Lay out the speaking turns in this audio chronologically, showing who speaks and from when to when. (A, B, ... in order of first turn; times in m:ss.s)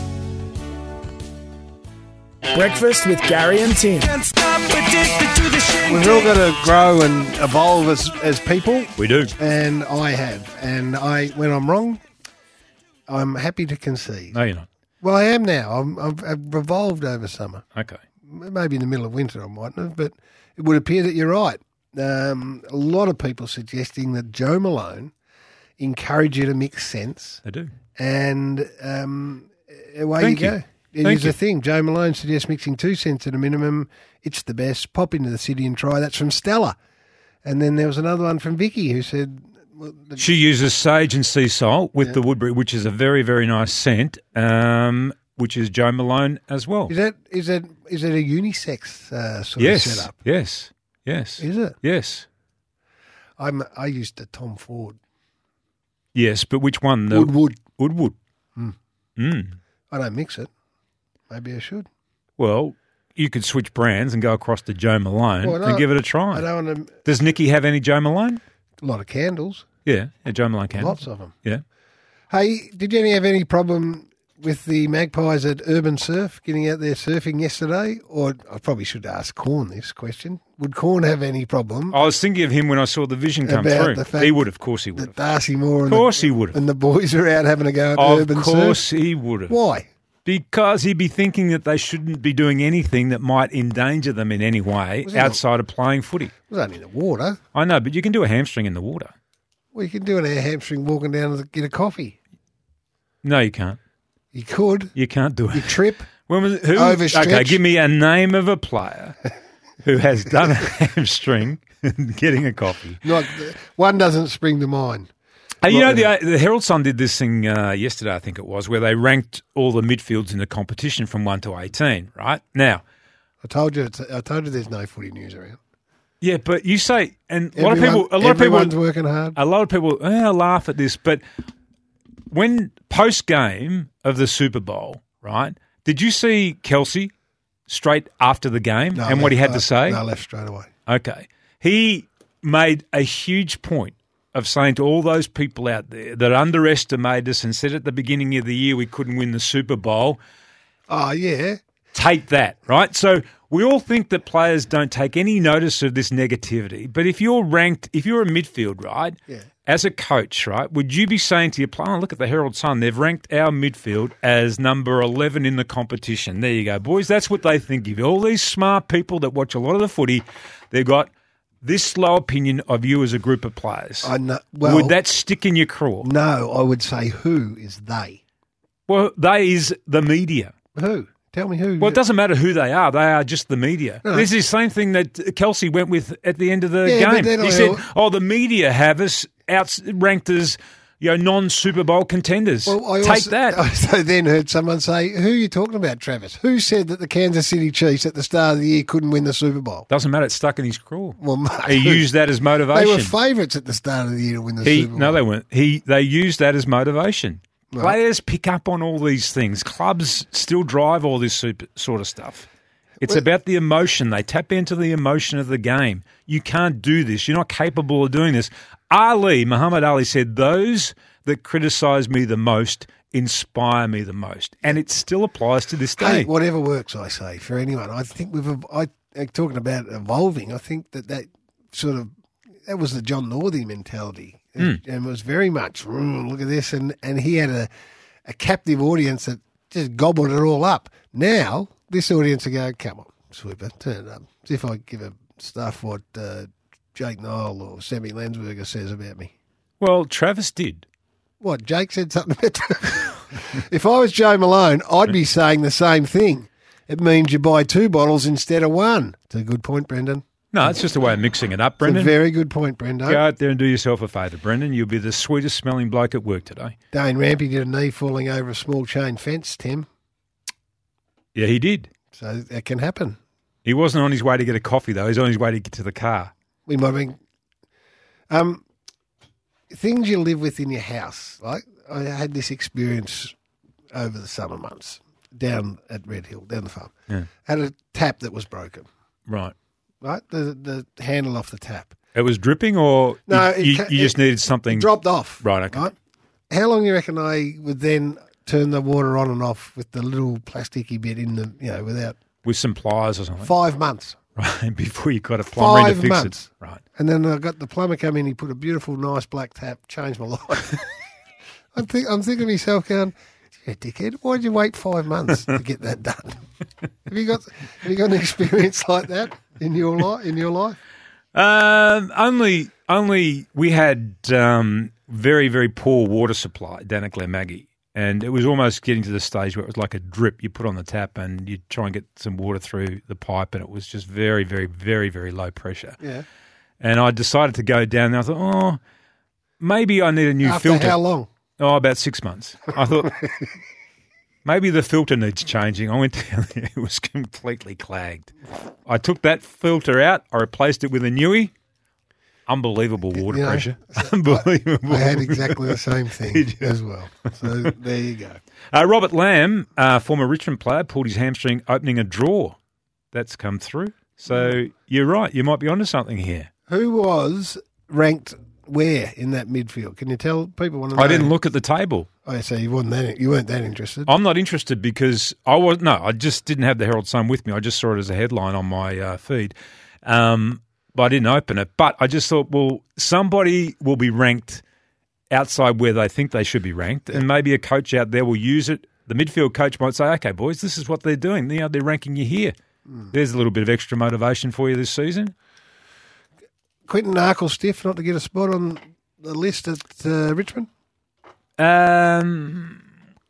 0:02.5-0:05.8 A
0:05.8-0:12.0 B
0:09.0-0:09.3 C
0:13.1-0:14.4 B
0:14.3-0:14.7 C
0:15.0-0:17.6 B
0:18.3-0:25.1 B
0:25.8-0:27.4 B
0:27.4-0:27.7 C
0:28.0-0:36.8 B
0:30.2-0:31.4 C
0:37.4-0:40.3 B
0:40.2-0:46.9 C
0:46.9-0:50.2 B
0:49.6-0:52.2 C
0:51.4-0:51.8 B
0:53.4-0:55.0 B
0:56.1-0:58.2 C
0:57.1-0:57.6 B
0:59.2-0:59.6 C
0:59.9-1:00.5 B
1:01.3-1:01.9 B
1:02.4-1:06.5 C
1:05.4-1:07.0 B
1:07.0-1:08.4 C
1:08.8-1:09.7 B
1:09.9-1:11.6 C
1:10.8-1:11.4 B
1:12.3-1:22.0 B
1:21.9-1:25.2 C
1:23.4-1:28.8 B
1:25.9-1:26.6 C
1:28.0-1:29.6 C
1:29.5-1:29.9 B
1:30.2-1:36.3 C
1:35.0-1:35.4 B
1:36.5-1:37.4 B
1:37.5-1:39.1 C
1:39.7-1:42.2 B
1:43.2-1:43.8 C
1:44.3-1:44.9 B
1:45.0-1:49.2 C
1:45.5-1:46.1 B
1:46.7-1:47.6 B
1:49.8-1:53.0 C
1:53.0-1:55.1 B
1:55.6-2:02.8 C
1:55.7-1:56.1 B
2:03.4-2:05.6 B
2:06.2-2:08.7 C
2:07.6-2:09.4 B
2:09.4-2:11.2 C
2:12.3-2:17.1 C
2:17.7-2:20.0 C
2:19.0-2:20.7 B
2:20.9-2:30.2 C
2:30.9-2:31.6 B
2:31.9-2:51.1 C
2:51.6-2:54.1 C
2:54.0-2:55.0 B
2:54.6-2:56.1 C
2:56.0-2:58.2 B
2:58.9-3:00.5 C
3:00.8-3:02.0 B
3:01.8-3:13.6 C
3:06.8-3:07.8 B
3:12.7-3:19.9 B
3:19.9-3:23.1 C
3:21.2-3:22.1 B
3:22.7-3:25.2 B
3:24.6-3:32.5 C
3:27.7-3:28.0 B
3:33.0-3:46.3 C
3:46.0-3:52.1 B
3:52.7-3:57.7 B
3:58.3-4:09.3 B
4:09.8-4:10.8 C
4:11.4-4:20.2 B
4:20.5-4:22.1 C
4:21.8-4:23.2 B
4:23.1-4:26.8 C
4:26.9-4:29.9 B
4:31.4-4:31.9 C
4:32.1-4:33.2 B
4:33.6-4:36.3 C
4:36.7-4:37.2 B
4:38.3-4:38.6 B
4:39.7-4:43.4 B
4:43.9-4:46.9 B
4:47.4-4:48.9 B
4:49.3-4:49.5 C
4:50.0-4:52.0 B
4:52.2-4:55.8 C
4:53.3-4:55.9 B
4:56.5-5:02.2 B
5:02.4-5:03.5 C
5:03.4-5:04.2 B
5:04.4-5:06.8 C
5:05.6-5:10.9 B
5:11.7-5:16.4 B
5:17.1-5:20.8 B
5:21.4-5:36.0 C
5:36.0-5:36.3 B
5:36.8-5:38.8 C
5:39.6-5:41.0 C
5:40.4-5:41.3 B
5:41.6-5:43.4 C
5:44.4-5:48.3 C
5:48.9-5:51.5 C
5:52.5-5:56.7 C
5:53.1-5:58.4 B
5:58.7-6:02.6 C
6:03.1-6:06.5 C
6:06.7-6:11.4 B
6:11.0-6:12.1 C
6:12.3-6:14.1 B
6:14.1-6:24.6 C
6:25.3-6:32.5 C
6:33.1-6:35.3 C
6:36.9-6:40.7 B
6:41.6-6:42.8 C